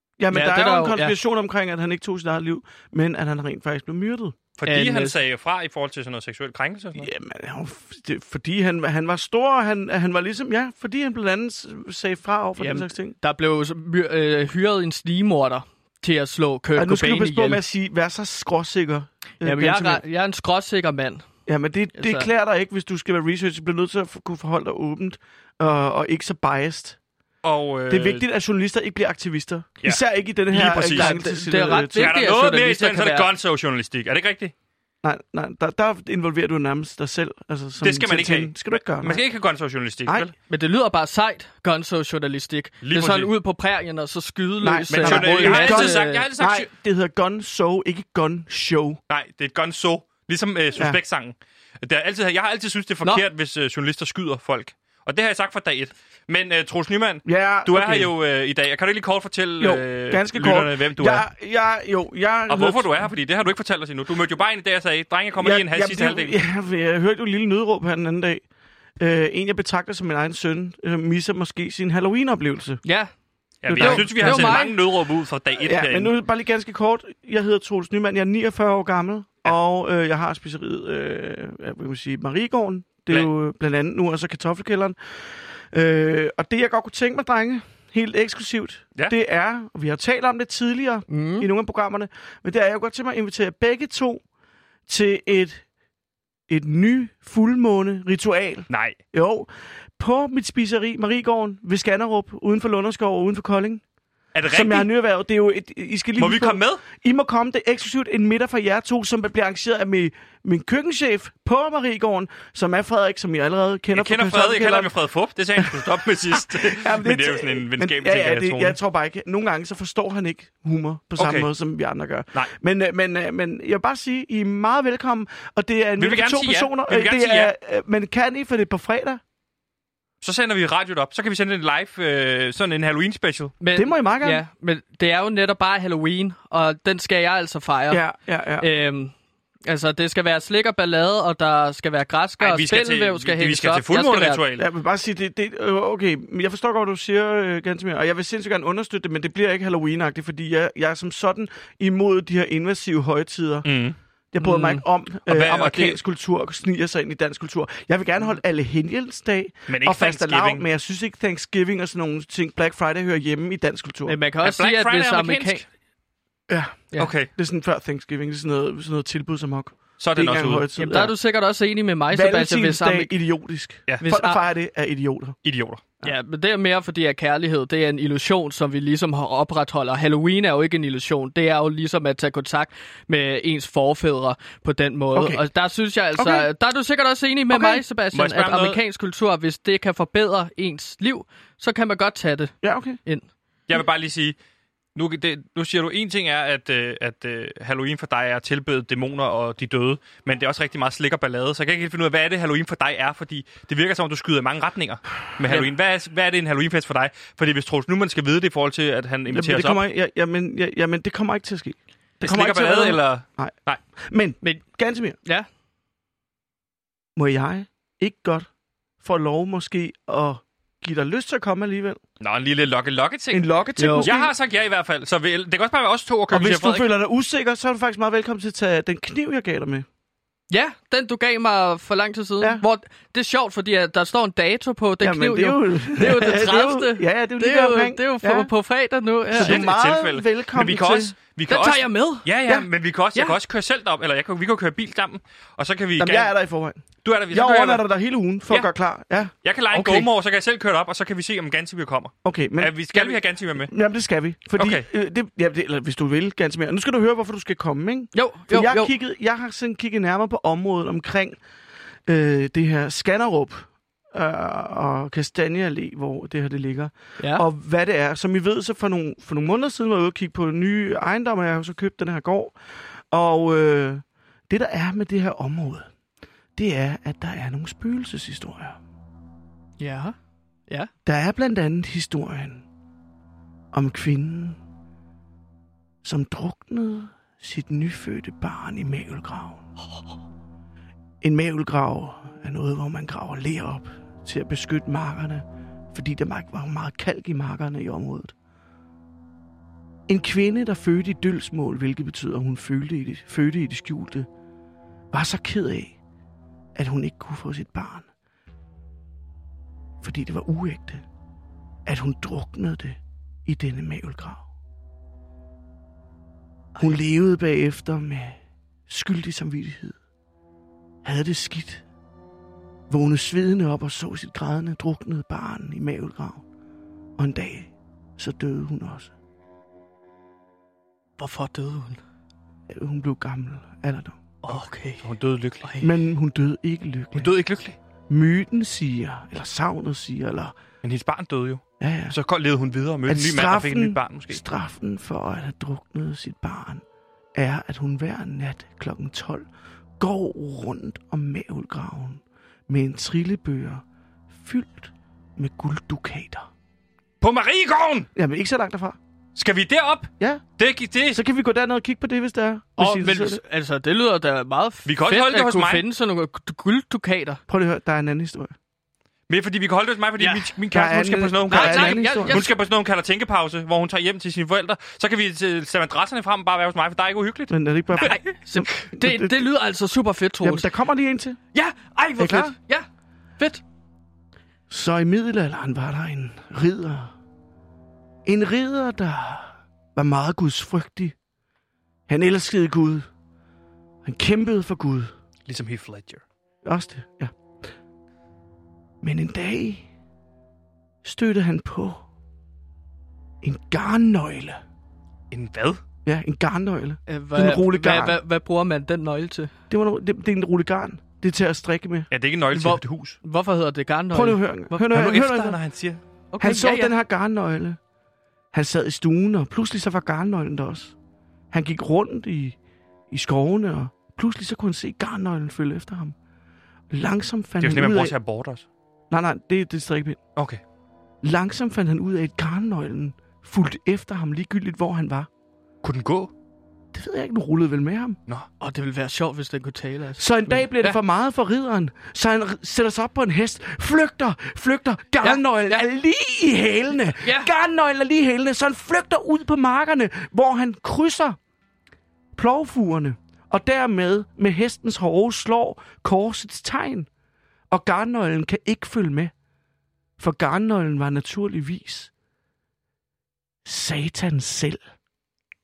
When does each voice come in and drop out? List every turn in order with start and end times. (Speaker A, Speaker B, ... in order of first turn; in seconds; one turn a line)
Speaker A: 0.2-4.4
Speaker B: 0.3-1.1
Speaker C: 4.6-7.1
Speaker B: 4.7-5.2
Speaker A: 7.0-13.2
Speaker B: 12.6-17.6
Speaker A: 16.8-20.0
Speaker B: 19.4-21.3
Speaker A: 21.5-27.0
Speaker B: 21.9-22.3
Speaker C: 27.4-28.2
Speaker A: 27.9-32.1
Speaker C: 29.8-31.2
Speaker B: 30.9-33.3
Speaker C: 32.0-34.5
Speaker A: 35.0-39.2
Speaker C: 37.8-40.3
Speaker B: 40.5-46.2
Speaker C: 42.8-43.3
Speaker A: 44.6-49.0
Speaker C: 44.9-46.7
Speaker C: 49.1-61.2
Speaker A: 57.2-58.1
Speaker A: 59.6-62.9
Speaker C: 62.5-66.3
Speaker A: 65.4-68.4
Speaker A: 69.0-72.8
Speaker B: 72.8-73.1
Speaker C: 73.6-76.1
Speaker A: 73.6-74.7
Speaker B: 73.7-74.8
Speaker A: 75.6-85.0
Speaker A: 85.7-94.2
Speaker B: 91.1-91.5
Speaker A: 94.9-95.6
Speaker A: 96.5-103.8
Speaker C: 98.7-99.0
Speaker C: 104.3-104.9
Speaker A: 104.5-114.9
Speaker C: 106.2-106.8
Speaker C: 113.9-118.8
Speaker A: 115.6-129.2
Speaker C: 121.2-121.5
Speaker C: 126.0-127.5
Speaker C: 130.2-133.6
Speaker B: 133.6-138.0
Speaker A: 133.7-134.4
Speaker A: 137.9-138.7
Speaker B: 138.6-139.1
Speaker B: 139.7-144.4
Speaker C: 142.4-144.7
Speaker A: 144.6-153.7
Speaker C: 153.6-154.0
Speaker A: 154.3-164.2
Speaker B: 154.4-154.8
Speaker C: 155.2-156.0
Speaker C: 159.7-160.6
Speaker B: 164.1-165.6
Speaker C: 164.4-165.6
Speaker A: 166.5-171.1
Speaker C: 167.0-167.3
Speaker C: 170.0-170.7
Speaker B: 170.8-173.1
Speaker A: 172.1-175.3
Speaker B: 174.0-174.4
Speaker C: 175.4-175.8
Speaker B: 176.0-193.2
Speaker A: 185.1-185.4
Speaker A: 186.2-186.5
Speaker A: 187.5-187.8
Speaker C: 188.1-188.8
Speaker A: 192.6-193.0
Speaker C: 193.7-194.3
Speaker C: 194.9-209.8
Speaker A: 209.3-215.2
Speaker C: 212.2-213.8
Speaker A: 217.2-218.5
Speaker A: 219.0-222.0
Speaker C: 222.2-223.5
Speaker A: 223.3-224.3
Speaker B: 223.8-224.1
Speaker C: 224.0-226.9
Speaker A: 226.3-229.8
Speaker B: 230.5-239.6
Speaker A: 235.0-238.5
Speaker A: 239.3-241.1
Speaker C: 239.4-246.3
Speaker B: 241.5-242.3
Speaker A: 246.0-249.3
Speaker C: 247.0-247.8
Speaker C: 249.4-253.7
Speaker B: 249.7-250.1
Speaker A: 252.2-261.4
Speaker C: 254.6-254.9
Speaker B: 258.1-258.9
Speaker A: 262.1-272.6
Speaker B: 267.2-267.4
Speaker A: 273.1-275.9
Speaker A: 276.6-278.8
Speaker B: 279.8-280.1
Speaker A: 281.0-282.6
Speaker A: 283.7-284.6
Speaker A: 286.0-289.6
Speaker A: 291.2-298.3
Speaker A: 300.1-304.3
Speaker A: 305.1-306.0
Speaker A: 306.8-308.1
Speaker A: 310.0-311.0
Speaker A: 311.9-314.4
Speaker A: 316.8-319.9
Speaker A: 321.0-321.8
Speaker A: 322.9-326.4
Speaker A: 327.2-329.1
Speaker B: 331.2-332.0
Speaker A: 332.7-334.2
Speaker B: 334.4-335.1
Speaker C: 334.5-335.7
Speaker B: 335.6-335.9
Speaker A: 335.8-337.3
Speaker C: 337.1-337.8
Speaker A: 338.1-340.5
Speaker C: 340.8-344.4
Speaker A: 341.8-342.1
Speaker A: 343.1-346.8
Speaker A: 347.3-349.5
Speaker A: 350.0-353.8
Speaker A: 354.4-356.5
Speaker C: 357.2-358.1
Speaker A: 358.1-359.0
Speaker C: 359.3-361.2
Speaker A: 361.1-363.4
Speaker B: 362.8-367.4
Speaker C: 364.8-365.8
Speaker A: 367.5-368.5
Speaker C: 369.3-378.2
Speaker B: 370.2-370.5
Speaker A: 370.7-372.5
Speaker B: 371.5-372.5
Speaker A: 377.5-379.4
Speaker B: 378.0-380.7
Speaker A: 380.4-381.4
Speaker B: 381.5-382.9
Speaker A: 382.2-382.5
Speaker A: 384.7-387.1
Speaker A: 388.2-391.1
Speaker A: 392.1-393.1
Speaker A: 394.0-395.1
Speaker C: 395.5-396.2
Speaker A: 396.6-397.3
Speaker A: 399.0-399.9
Speaker A: 401.0-402.0
Speaker A: 403.4-404.6
Speaker C: 405.3-405.8
Speaker A: 406.1-408.2
Speaker B: 407.1-409.5
Speaker A: 409.7-412.1
Speaker C: 412.1-413.2
Speaker B: 412.5-414.9
Speaker A: 414.1-415.6
Speaker C: 414.9-416.0
Speaker B: 416.3-416.9
Speaker A: 416.4-417.8
Speaker A: 418.5-420.9
Speaker A: 421.5-422.6
Speaker A: 423.1-426.1
Speaker A: 426.9-428.1
Speaker C: 427.6-428.6
Speaker A: 429.1-430.2
Speaker C: 430.4-430.6
Speaker A: 431.2-435.3
Speaker C: 435.8-436.3
Speaker A: 436.9-438.2
Speaker B: 438.6-441.0
Speaker A: 440.2-451.4
Speaker B: 445.2-445.8
Speaker B: 447.2-447.5
Speaker A: 452.4-457.1
Speaker A: 457.7-459.3
Speaker A: 460.2-462.1
Speaker A: 463.6-464.8